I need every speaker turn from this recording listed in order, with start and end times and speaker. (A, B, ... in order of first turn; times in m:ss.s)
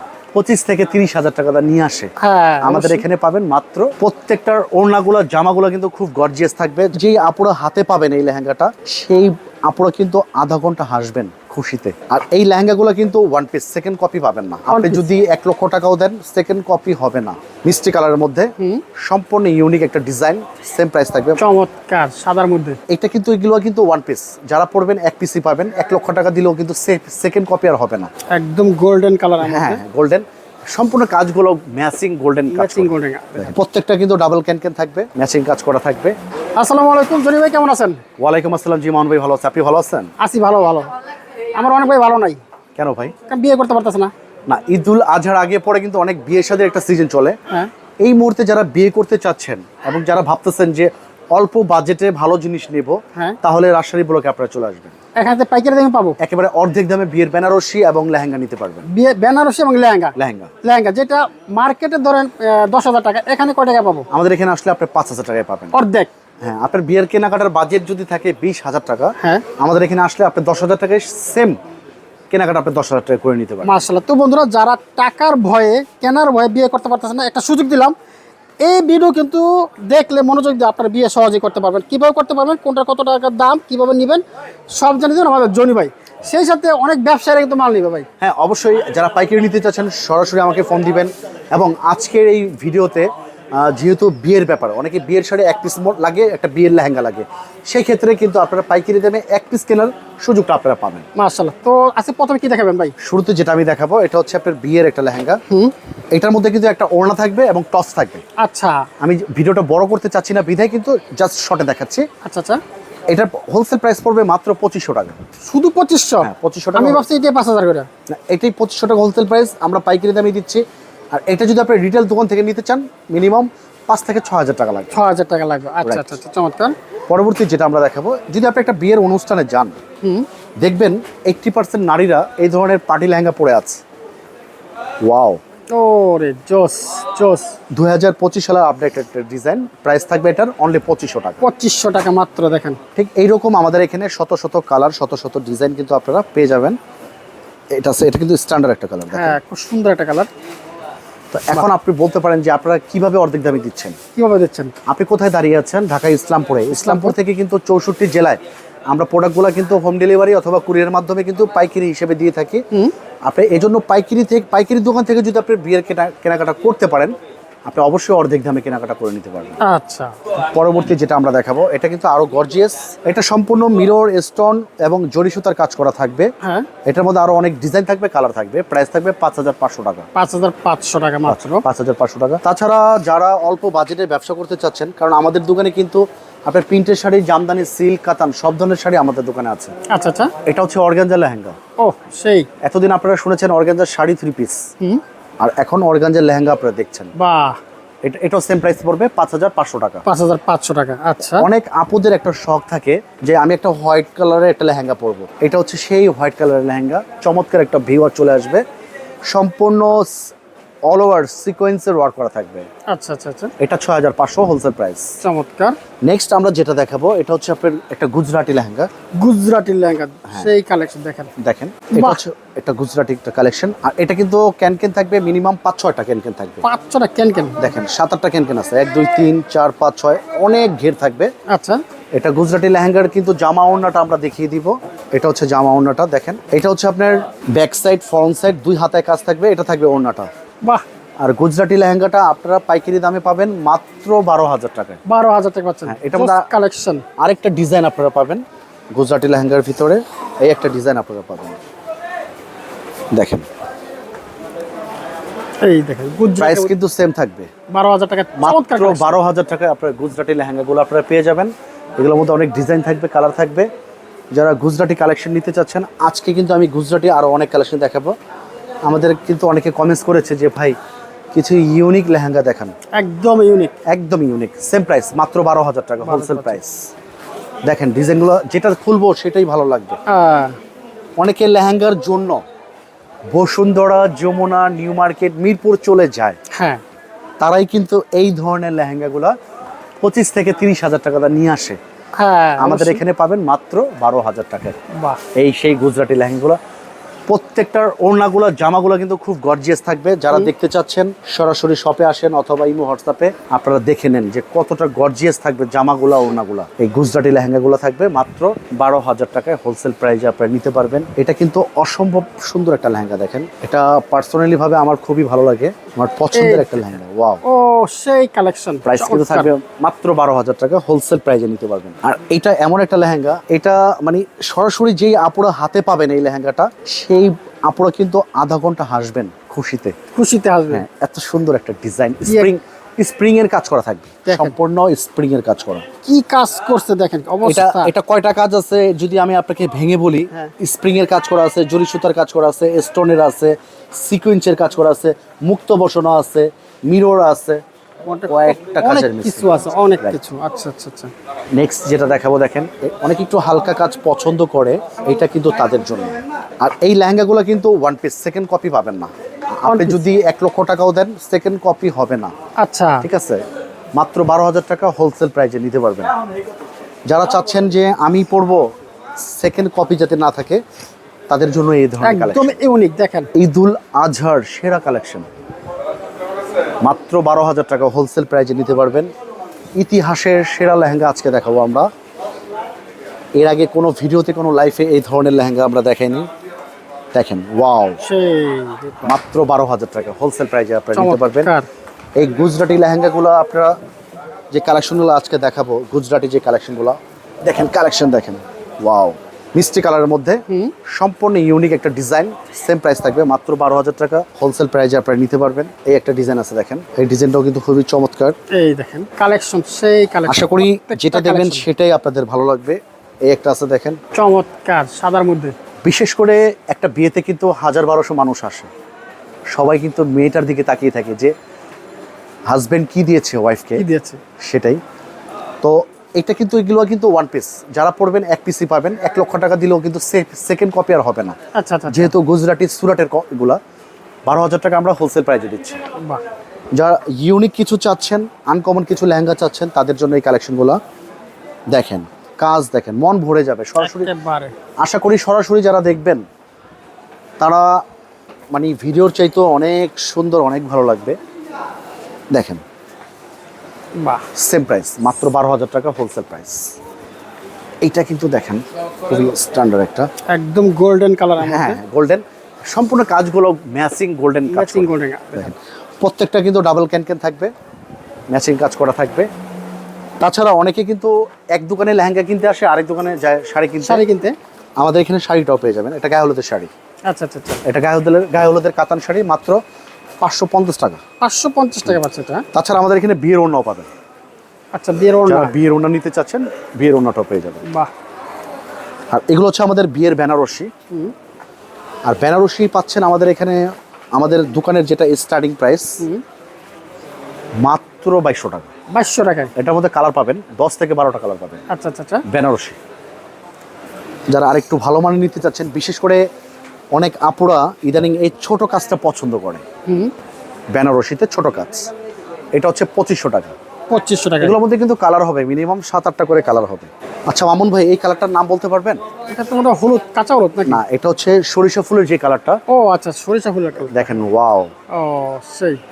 0:00.3-0:21.4 A
0:02.2-0:03.0 B
0:14.7-0:15.0 B
0:18.6-0:18.8 B
0:21.4-0:22.8 B
0:22.9-0:28.1 A
0:28.3-0:29.8 B
0:29.4-0:36.1 A
0:32.5-0:33.6 B
0:36.6-0:38.0 B
0:38.2-0:40.1 A
0:40.2-0:40.9 B
0:41.6-0:42.4 B
0:42.8-0:43.1 A
0:43.3-0:44.1 B
0:44.5-0:47.4 A
0:48.0-0:54.9 A
0:55.2-0:56.2 B
0:56.2-0:58.8 A
0:58.9-1:04.1 B
1:00.2-1:00.5 A
1:04.1-1:05.7 A
1:05.7-1:06.1 B
1:06.4-1:11.6 A
1:09.2-1:09.4 B
1:12.3-1:13.7 A
1:13.6-1:18.0 B
1:18.6-1:28.1 B
1:28.2-1:41.1 A
1:41.2-1:43.0 B
1:43.0-1:45.4 A
1:45.5-1:45.7 B
1:46.1-1:48.2 A
1:48.4-1:48.9 B
1:49.0-1:52.0 A
1:52.2-1:52.6 B
1:53.1-1:55.2 A
1:55.5-1:57.9 B
1:56.2-1:57.0 A
1:58.1-2:04.9 A
2:04.9-2:06.7 B
2:05.8-2:06.2 A
2:07.1-2:09.8 A
2:10.0-2:10.3 B
2:10.6-2:13.8 A
2:15.0-2:15.4 A
2:15.7-2:17.6 B
2:17.7-2:21.4 A
2:21.4-2:22.8 B
2:23.0-2:26.8 A
2:27.8-2:29.4 A
2:29.1-2:30.3 B
2:31.3-2:34.0 A
2:34.2-2:34.7 B
2:34.9-2:42.6 A
2:36.7-2:37.2 B
2:43.2-2:47.2 A
2:47.7-2:49.6 A
2:49.6-2:50.2 B
2:50.3-2:56.3 A
2:56.4-2:56.7 B
2:56.8-3:00.1 A
3:00.2-3:01.6 B
3:01.2-3:09.8 A
3:09.9-3:10.3 B
3:10.5-3:11.6 A
3:11.8-3:12.5 B
3:12.6-3:14.7 A
3:15.4-3:17.1 A
3:17.2-3:17.6 B
3:18.0-3:20.0 A
3:20.1-3:21.5 B
3:21.4-3:28.6 A
3:29.3-3:30.3 A
3:30.9-3:32.7 A
3:32.9-3:33.5 B
3:33.6-3:35.1 A
3:35.2-3:35.8 B
3:36.0-3:38.9 A
3:39.2-3:41.3 B
3:41.4-3:46.6 A
3:41.9-3:42.2 B
3:46.6-3:47.7 B
3:47.6-3:51.3 A
3:51.5-3:51.8 B
3:52.2-4:00.3 A
4:01.2-4:05.0 A
4:05.0-4:07.0 B
4:05.9-4:06.5 A
4:07.2-4:08.4 A
4:09.0-4:11.6 A
4:13.1-4:13.5 A
4:15.6-4:16.7 B
4:16.4-4:17.5 A
4:17.7-4:19.1 B
4:18.4-4:23.7 A
4:24.3-4:28.1 A
4:28.9-4:30.8 A
4:31.3-4:32.7 A
4:32.9-4:33.7 B
4:33.9-4:36.9 A
4:36.0-4:36.6 B
4:37.7-4:40.0 A
4:40.0-4:40.6 B
4:41.2-4:42.4 A
4:43.3-4:46.4 A
4:46.5-4:46.8 B
4:47.4-4:49.3 A
4:50.0-4:51.8 A
4:52.1-4:53.0 B
4:52.6-4:54.8 A
4:55.0-4:55.2 B
4:55.3-4:56.6 A
4:57.3-5:17.4 A
5:16.3-5:16.9 B
5:17.4-5:19.5 B
5:18.8-5:29.9 A
5:30.1-5:30.8 B
5:30.7-5:35.8 A
5:32.2-5:32.5 B
5:34.3-5:34.5 B
5:36.0-5:37.9 B
5:37.4-5:47.6 A
5:48.0-5:51.1 B
5:48.3-5:50.2 A
5:51.6-6:02.3 A
5:59.6-6:00.0 B
6:02.6-6:03.1 B
6:03.0-6:03.4 A
6:04.0-6:06.1 A
6:07.1-6:08.6 A
6:09.2-6:10.6 A
6:11.3-6:12.6 A
6:12.0-6:13.3 B
6:13.3-6:15.3 A
6:16.8-6:19.1 A
6:19.8-6:21.9 A
6:23.4-6:26.3 A
6:27.1-6:28.0 A
6:28.0-6:29.2 B
6:29.0-6:31.5 A
6:30.9-6:31.7 B
6:32.2-6:33.8 A
6:34.5-6:48.4 A
6:40.5-6:40.7 B
6:48.5-6:51.7 B
6:50.3-6:54.0 A
6:54.1-6:55.5 B
6:55.8-6:58.7 A
6:59.5-7:01.3 A
7:02.5-7:03.8 A
7:03.8-7:04.2 B
7:04.4-7:04.8 A
7:05.6-7:11.4 A
7:11.5-7:12.1 B
7:11.9-7:13.6 A
7:14.3-7:15.8 A
7:16.7-7:20.8 A
7:21.7-7:24.1 A
7:23.8-7:24.5 B
7:24.8-7:26.2 A
7:27.4-7:27.8 A
7:28.5-7:31.2 A
7:32.3-7:32.6 A
7:34.0-7:34.3 B
7:34.3-7:36.7 A
7:37.8-7:40.1 A
7:40.3-7:41.8 B
7:41.4-7:47.5 A
7:44.5-7:45.5 B
7:48.3-7:49.3 A
7:50.2-7:54.0 A
7:53.8-7:54.4 B
7:54.8-7:56.7 A
7:57.0-7:57.6 B
7:57.6-7:59.6 A
8:00.2-8:01.0 A
8:01.2-8:02.4 B
8:02.5-8:03.9 A
8:04.7-8:05.6 B
8:05.2-8:07.6 A
8:07.6-8:07.9 B
8:09.1-8:10.7 A
8:12.1-8:16.0 A
8:17.6-8:18.7 A
8:18.9-8:19.5 B
8:19.6-8:21.6 A
8:21.7-8:22.2 B
8:22.3-8:22.8 A
8:24.3-8:26.2 A
8:26.9-8:29.6 A
8:29.9-8:30.1 B
8:30.7-8:31.9 A
8:32.6-8:33.5 A
8:33.9-8:34.6 B
8:34.4-8:39.0 A
8:39.3-8:40.8 B
8:40.7-8:42.6 A
8:42.7-8:44.1 B
8:43.9-8:44.7 A
8:44.9-8:45.8 B